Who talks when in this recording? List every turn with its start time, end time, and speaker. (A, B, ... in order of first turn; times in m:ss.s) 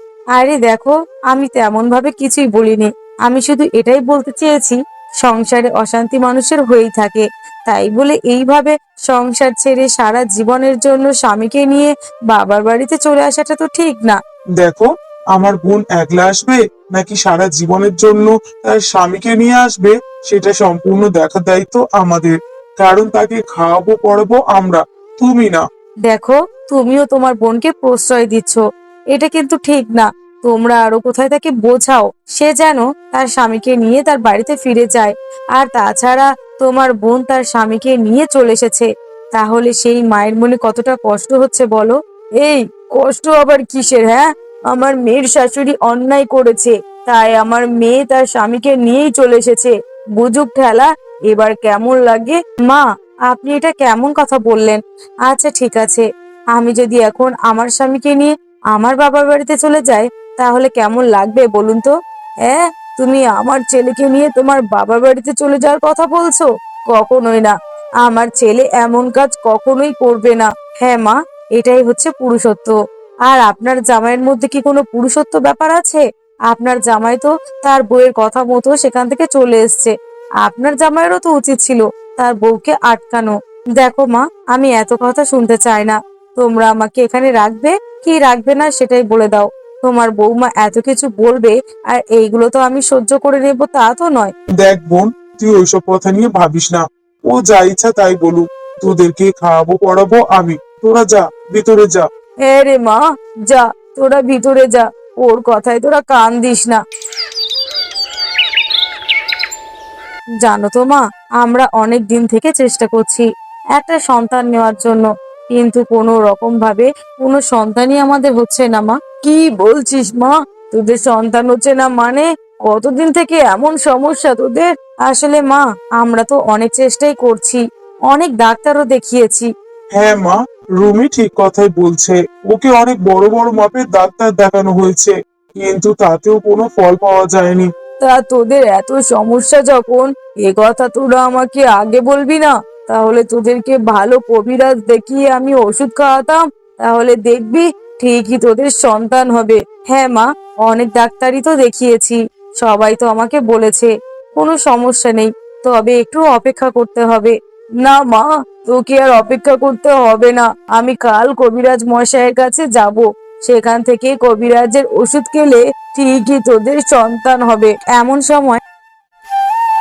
0:00.4-0:14.2 A
0:14.6-0:25.6 B
0:26.1-0:28.6 A
0:29.1-1:01.9 A
1:02.5-1:34.3 A
1:34.6-1:42.1 B
1:42.5-1:46.8 A
1:50.4-1:53.3 A
1:53.8-2:09.5 A
2:10.0-2:17.7 B
2:18.0-2:48.6 A